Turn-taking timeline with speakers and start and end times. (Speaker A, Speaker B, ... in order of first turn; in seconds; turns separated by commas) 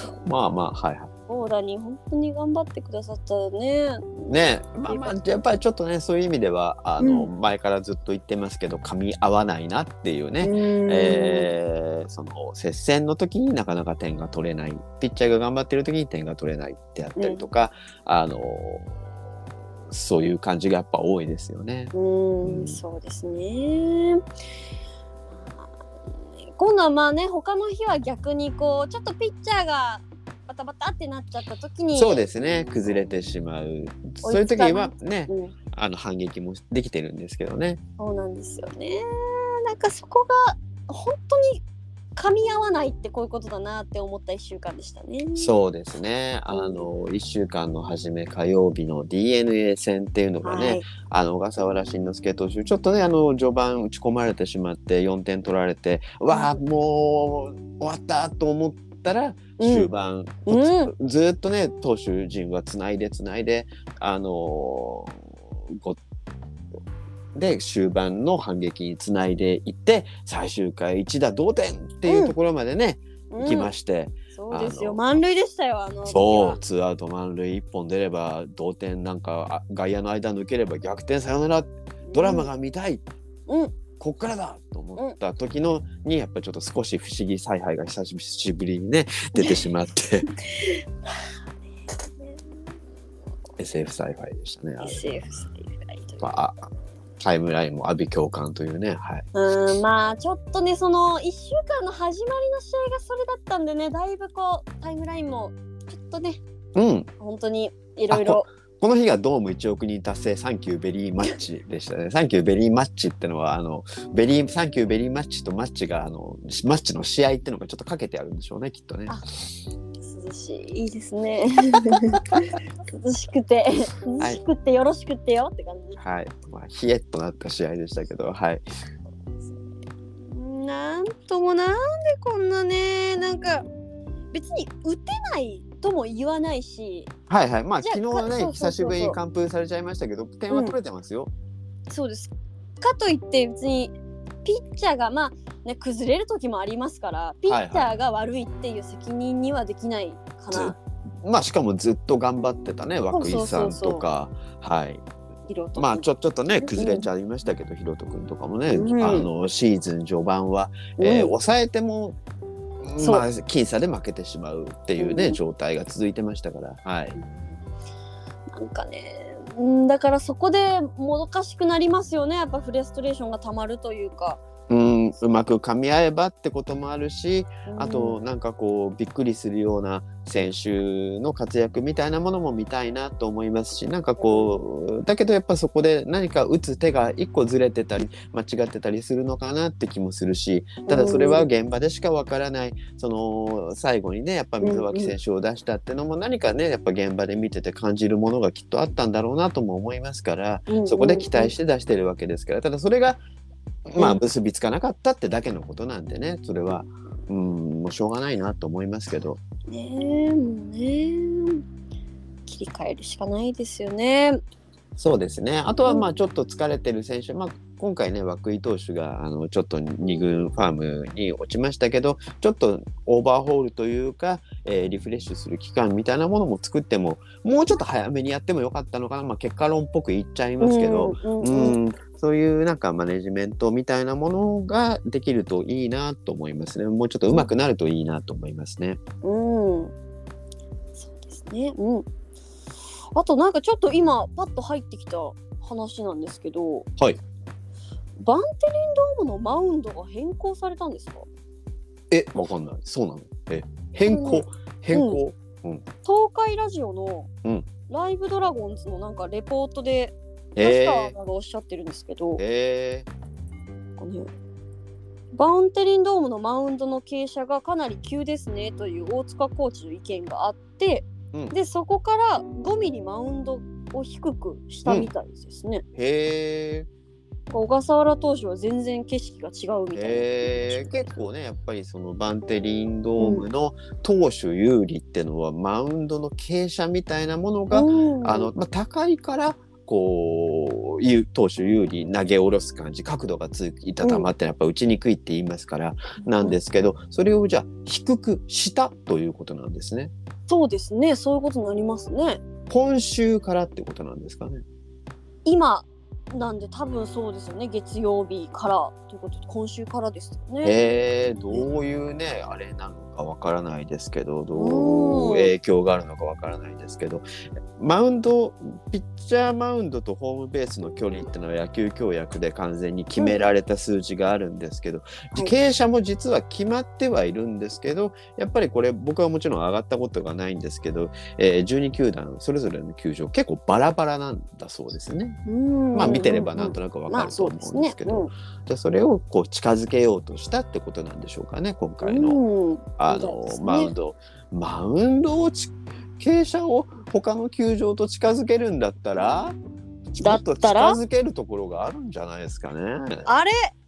Speaker A: 0.2-1.1, Speaker B: 1.3-5.2, Speaker A: 4.3-18.9, Speaker B: 7.0-7.3, Speaker B: 10.4-11.5, Speaker B: 17.2-17.4, Speaker A: 19.9-21.9, Speaker B: 21.9-24.2, Speaker A: 22.4-22.8, Speaker B: 26.4-32.3, Speaker A: 32.0-37.8, Speaker B: 34.2-35.5, Speaker B: 38.0-41.6, Speaker B: 42.2-45.5, Speaker A: 45.4-66.0, Speaker B: 46.5-46.9, Speaker B: 50.4-50.9, Speaker B: 56.3-56.6, Speaker B: 59.6-59.9, Speaker B: 60.5-60.9, Speaker A: 67.3-75.0, Speaker B: 72.1-72.3, Speaker B: 73.3-73.7, Speaker B: 74.3-76.6, Speaker A: 76.1-83.0, Speaker B: 82.1-82.5, Speaker B: 83.5-83.8, Speaker A: 84.0-90.3, Speaker B: 89.3-89.7, Speaker B: 90.5-90.8, Speaker A: 93.6-95.1, Speaker B: 94.8-96.3, Speaker A: 96.2-96.7, Speaker A: 97.2-99.3, Speaker B: 99.3-106.4, Speaker A: 106.8-107.1, Speaker B: 107.2-108.5, Speaker A: 108.1-119.2, Speaker B: 120.0-126.0, Speaker A: 121.9-122.4, Speaker A: 126.0-128.6, Speaker B: 130.3-133.7, Speaker B: 134.3-137.1, Speaker A: 137.3-141.3, Speaker B: 137.8-139.2, Speaker B: 140.5-140.8, Speaker B: 141.9-150.8, Speaker A: 147.5-147.9, Speaker A: 150.5-155.0, Speaker B: 153.1-154.0, Speaker B: 155.5-156.1, Speaker A: 155.8-162.2, Speaker B: 156.6-157.1, Speaker B: 158.7-159.3, Speaker B: 161.0-161.3, Speaker A: 162.8-167.2, Speaker B: 163.0-163.3, Speaker B: 165.0-165.4, Speaker B: 168.5-174.4, Speaker A: 174.7-203.2, Speaker B: 177.7-178.2, Speaker B: 184.2-184.6, Speaker B: 190.9-191.5, Speaker B: 194.6-195.1, Speaker B: 200.7-201.5, Speaker A: 203.9-209.4, Speaker B: 209.7-211.6, Speaker B: 212.5-214.4, Speaker A: 215.0-239.0, Speaker B: 230.6-231.8, Speaker B: 239.2-239.9, Speaker B: 241.0-242.1, Speaker B: 243.2-246.9, Speaker B: 248.2-251.3, Speaker A: 252.1-255.8, Speaker B: 254.1-255.2, Speaker B: 256.0-257.3, Speaker B: 257.9-262.4, Speaker A: 260.6-261.2, Speaker A: 262.4-263.1, Speaker B: 264.0-264.3, Speaker B: 265.3-275.8, Speaker A: 276.0-276.9, Speaker B: 277.5-281.1, Speaker A: 279.9-300.1, Speaker B: 283.2-283.4, Speaker B: 287.7-288.5, Speaker B: 294.0-294.3, Speaker B: 296.2-296.6, Speaker B: 300.5-302.4, Speaker A: 302.7-304.6, Speaker B: 305.4-310.9, Speaker A: 310.6-317.2, Speaker B: 314.5-315.5, Speaker A: 317.8-335.4, Speaker B: 335.5-338.3, Speaker A: 335.9-342.4, Speaker B: 342.0-343.9, Speaker A: 343.0-349.6, Speaker A: 350.1-353.3, Speaker B: 350.2-351.0, Speaker B: 353.2-353.7